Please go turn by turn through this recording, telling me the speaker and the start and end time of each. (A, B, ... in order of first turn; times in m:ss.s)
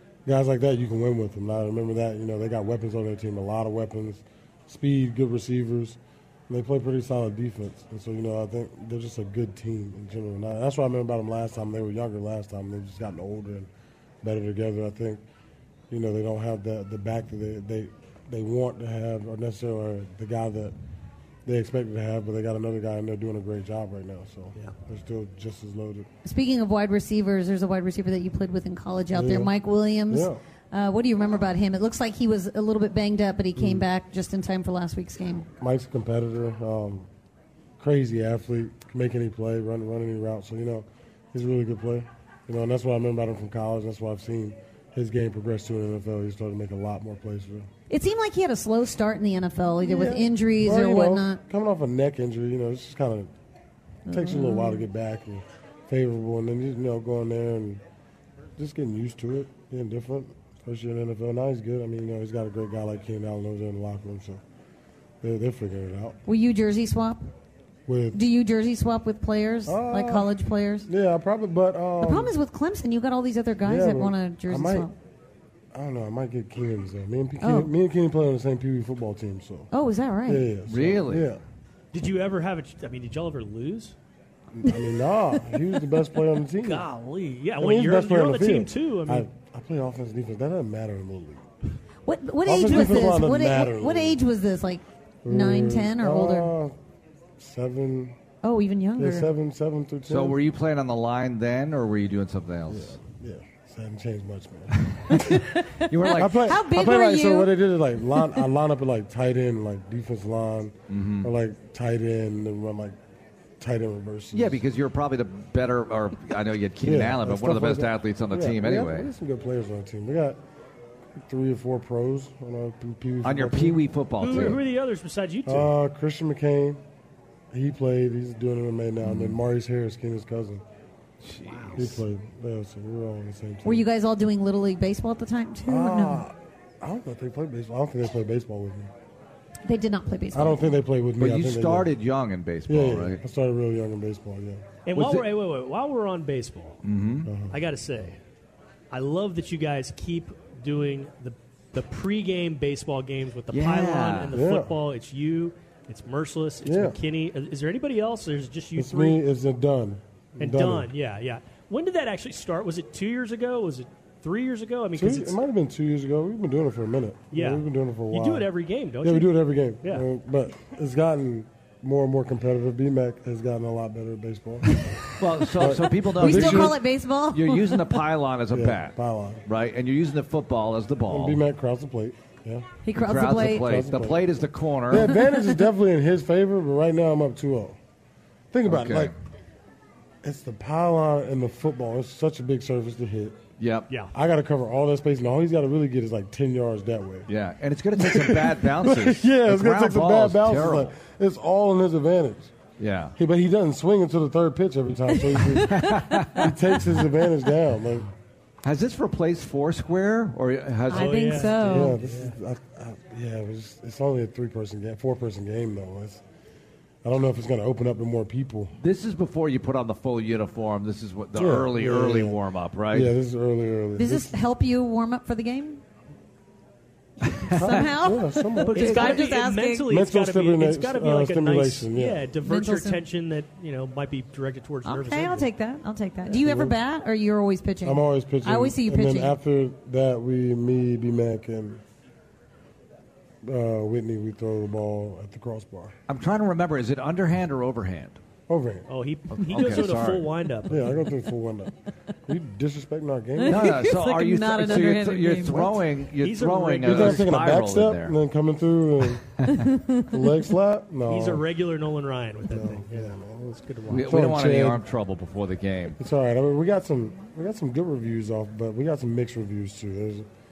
0:00.2-0:13.7 A
0:14.2-0:15.2 A
0:15.9-0:20.8 A
0:21.4-0:26.1 A
0:26.2-0:35.5 B
0:29.1-0:29.5 A
0:30.1-0:30.4 A
0:33.6-0:33.8 A
0:35.6-0:37.1 A
0:37.8-0:47.7 A
0:47.9-0:51.4 B
0:49.8-0:53.3 A
0:54.1-0:54.8 B
0:54.1-0:57.8 A
0:58.6-1:04.4 A
1:05.2-1:06.2 A
1:06.2-1:07.3 B
1:07.9-1:08.2 A
1:08.1-1:10.9 B
1:09.6-1:12.3 A
1:12.0-1:14.9 B
1:13.6-1:14.9 A
1:15.7-1:19.7 A
1:17.4-1:17.7 B
1:19.7-1:20.5 B
1:20.2-1:21.4 A
1:20.7-1:21.3 C
1:21.9-1:23.9 D
1:24.5-1:26.8 A
1:26.6-1:29.3 D
1:27.6-1:31.4 A
1:32.0-1:36.5 B
1:32.4-1:34.2 A
1:35.2-1:36.8 A
1:37.4-1:38.2 A
1:38.4-1:39.3 B
1:39.0-1:40.4 A
1:40.1-1:43.0 C
1:42.7-1:45.2 A
1:45.2-1:47.6 B
1:45.9-1:46.4 C
1:46.1-1:53.0 A
1:50.9-1:51.3 C
1:53.6-1:54.6 A
1:54.3-1:59.1 C
1:56.8-2:00.4 A
2:01.1-2:04.6 A
2:03.2-2:04.6 C
2:04.2-2:05.7 D
2:05.4-2:06.8 A
2:07.5-2:10.6 A
2:09.0-2:09.4 C
2:11.2-2:12.0 C
2:11.8-2:13.8 A
2:13.6-2:16.2 B
2:15.6-2:18.9 A
2:19.6-2:20.7 B
2:20.3-2:21.9 A
2:21.2-2:23.2 C
2:22.7-2:24.7 A
2:24.9-2:26.8 D
2:24.9-2:25.3 C
2:26.8-2:27.3 C
2:27.2-2:27.6 A
2:27.5-2:28.2 D
2:28.9-2:39.2 D
2:33.5-2:34.3 C
2:34.3-2:34.8 A
2:36.6-2:37.0 A
2:38.8-2:40.9 A
2:40.4-2:45.4 D
2:44.9-2:48.5 A
2:47.3-2:49.3 D
2:49.0-2:54.9 A
2:54.7-2:58.0 B
2:55.2-2:58.9 C
2:55.5-2:56.8 A
2:58.5-2:59.4 A
2:59.4-3:01.4 C
3:01.1-3:04.3 A
3:02.8-3:03.8 B
3:02.9-3:05.1 C
3:04.9-3:07.8 A
3:05.1-3:05.6 B
3:08.5-3:09.1 A
3:08.7-3:09.1 C
3:10.2-3:13.4 A
3:13.6-3:13.9 C
3:14.1-3:17.3 A
3:17.3-3:20.9 C
3:18.0-3:22.5 A
3:22.8-3:23.1 C
3:23.2-3:28.1 A
3:25.4-3:26.1 B
3:25.6-3:26.5 C
3:28.6-3:31.5 C
3:30.9-3:32.0 B
3:30.9-3:32.3 D
3:31.6-3:36.2 A
3:37.0-3:38.7 A
3:38.8-3:43.1 C
3:41.3-3:42.4 A
3:42.9-3:44.4 A
3:44.0-3:45.8 B
3:47.3-3:47.8 C
3:47.5-3:49.2 A
3:47.5-3:49.9 B
3:48.6-3:55.5 D
3:49.9-3:52.3 A
3:52.4-3:53.0 B
3:54.8-3:59.4 B
3:56.3-3:56.8 A
3:57.8-4:01.8 A
4:03.4-4:05.9 A
4:06.1-4:08.2 C
4:08.5-4:08.9 A
4:08.9-4:11.0 D
4:09.3-4:10.3 C
4:10.7-4:11.7 A
4:12.2-4:13.8 A
4:13.4-4:15.8 B
4:13.4-4:18.2 C
4:16.2-4:17.3 D
4:16.8-4:19.4 A
4:19.4-4:19.6 C
4:19.5-4:20.1 B
4:20.1-4:21.4 A
4:21.1-4:23.1 D
4:22.4-4:24.8 A
4:23.7-4:24.0 D
4:23.9-4:26.0 C
4:26.0-4:30.3 A